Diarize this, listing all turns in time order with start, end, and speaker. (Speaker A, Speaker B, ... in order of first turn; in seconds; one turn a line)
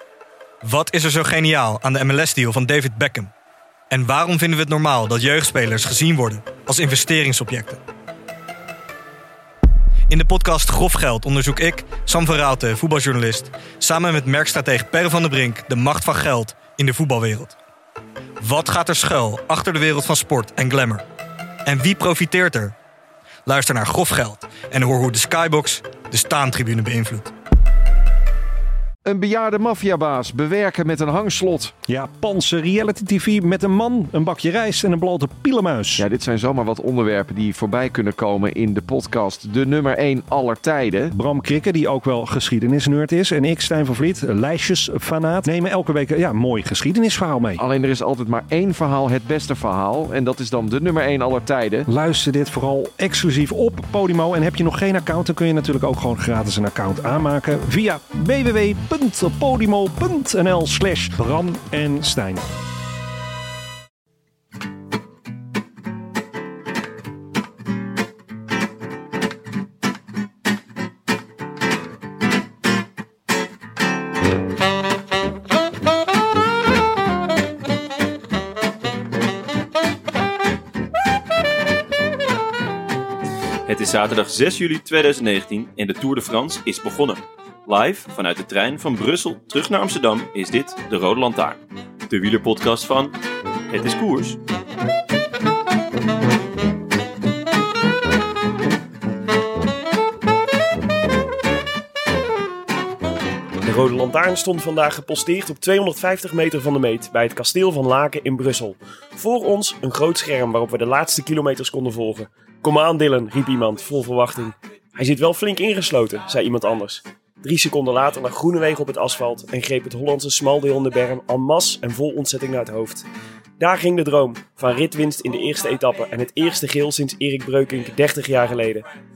Speaker A: 0.6-3.3
Speaker A: 3.9-7.8
Speaker A: 10.1-17.6
Speaker A: 18.4-21.0
Speaker A: 21.6-22.8
Speaker A: 23.5-27.3
Speaker B: 29.1-31.8
Speaker C: 31.9-36.1
Speaker B: 36.0-41.1
Speaker C: 41.1-47.6
Speaker B: 47.6-51.9
Speaker C: 51.9-62.5
Speaker D: 83.7-93.2
Speaker D: 93.7-94.4
Speaker E: 103.6-123.1
Speaker E: 123.6-128.8